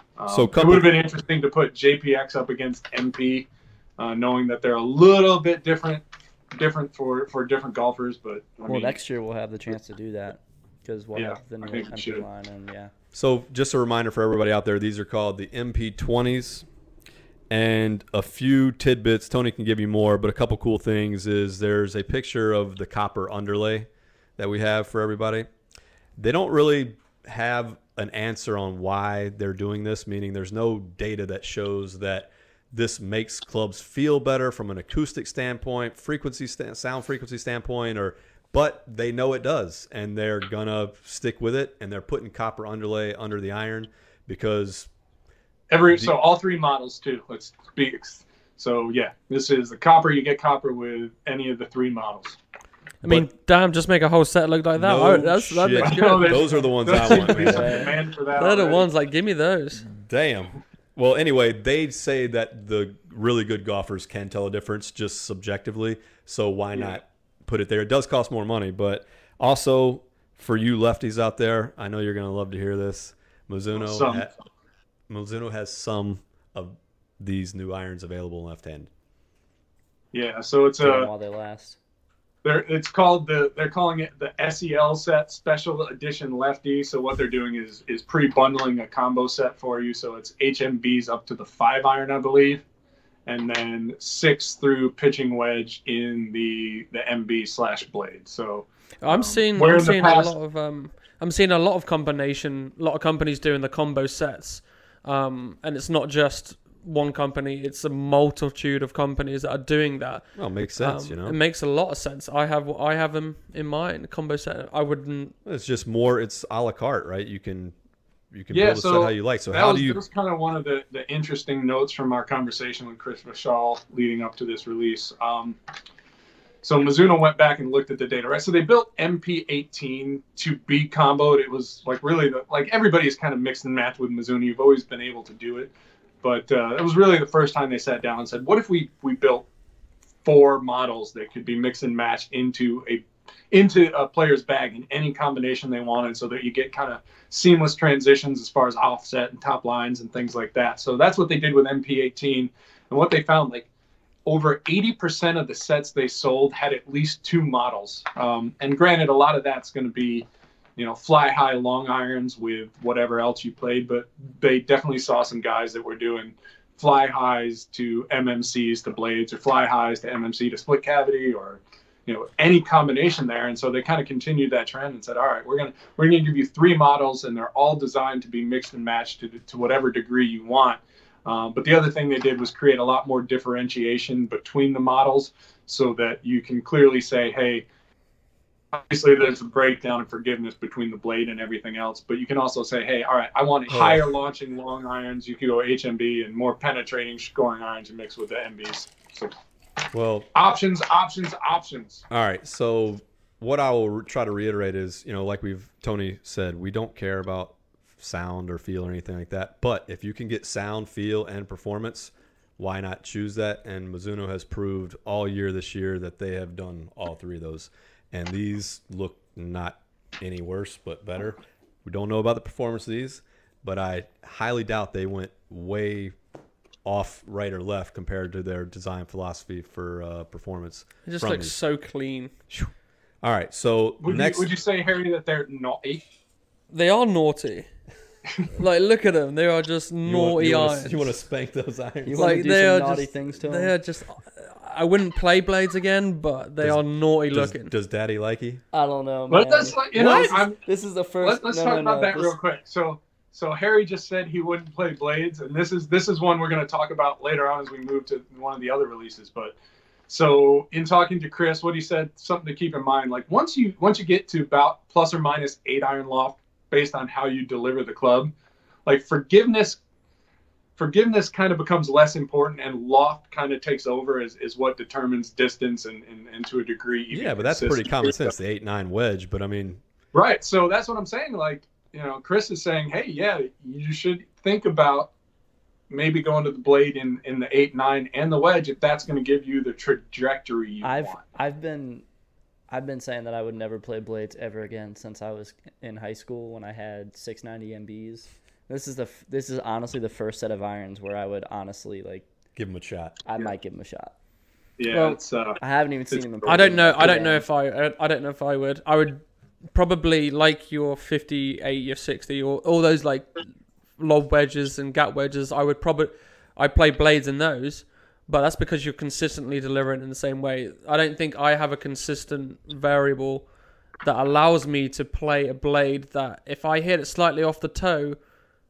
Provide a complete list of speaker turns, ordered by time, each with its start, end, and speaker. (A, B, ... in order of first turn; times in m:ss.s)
0:00.2-0:09.0 A
0:00.3-0:01.0 B
0:08.7-0:12.9 C
0:11.1-0:12.2 A
0:13.1-0:16.7 B
0:17.5-0:25.5 B
0:26.2-0:44.9 B
0:45.7-0:52.4 A
0:45.9-0:46.1 B
0:53.0-0:59.9 D
0:53.0-0:53.3 B
0:54.8-0:57.7 B
0:55.8-0:58.9 A
0:57.4-0:58.0 C
0:59.9-1:14.3 B
1:06.7-1:07.0 A
1:13.8-1:14.3 A
1:15.1-1:18.9 B
1:20.1-1:21.1 A
1:20.8-1:21.8 C
1:22.4-1:32.6 A
1:33.3-1:40.3 A
1:39.0-1:55.4 D
1:50.4-1:51.4 B
1:55.4-1:57.7 B
1:58.3-2:00.0 B
1:58.5-2:05.6 A
2:06.6-2:19.5 A
2:20.2-2:33.7 A
2:34.3-3:07.6 A
3:08.7-3:19.4 A
3:13.7-3:14.1 B
3:19.9-3:20.3 B
3:20.3-3:22.0 A
3:22.1-3:46.1 B
3:46.8-3:51.6 B
3:51.0-3:52.3 D
3:52.5-3:54.5 B
3:54.0-3:56.0 A
3:56.7-3:57.7 D
3:58.6-4:01.1 D
4:00.0-4:02.4 B
4:02.0-4:03.7 C
4:02.2-4:07.7 D
4:06.6-4:08.6 B
4:08.7-4:12.4 C
4:09.3-4:10.6 A
4:10.0-4:10.3 B
4:11.2-4:19.6 A
4:20.1-4:28.3 A
4:28.9-4:29.8 A
4:30.8-4:38.3 A
4:37.1-4:39.8 B
4:40.1-4:45.1 A
4:45.9-4:51.2 A
4:50.8-4:52.0 C
4:52.7-5:02.3 C
5:02.6-5:03.2 B
5:03.2-5:04.1 C
5:04.8-5:05.6 A
5:04.9-5:05.2 D
5:05.6-5:07.5 C
5:06.1-5:07.2 A
5:06.4-5:13.4 D
5:14.0-5:23.5 D
5:24.0-5:28.2 D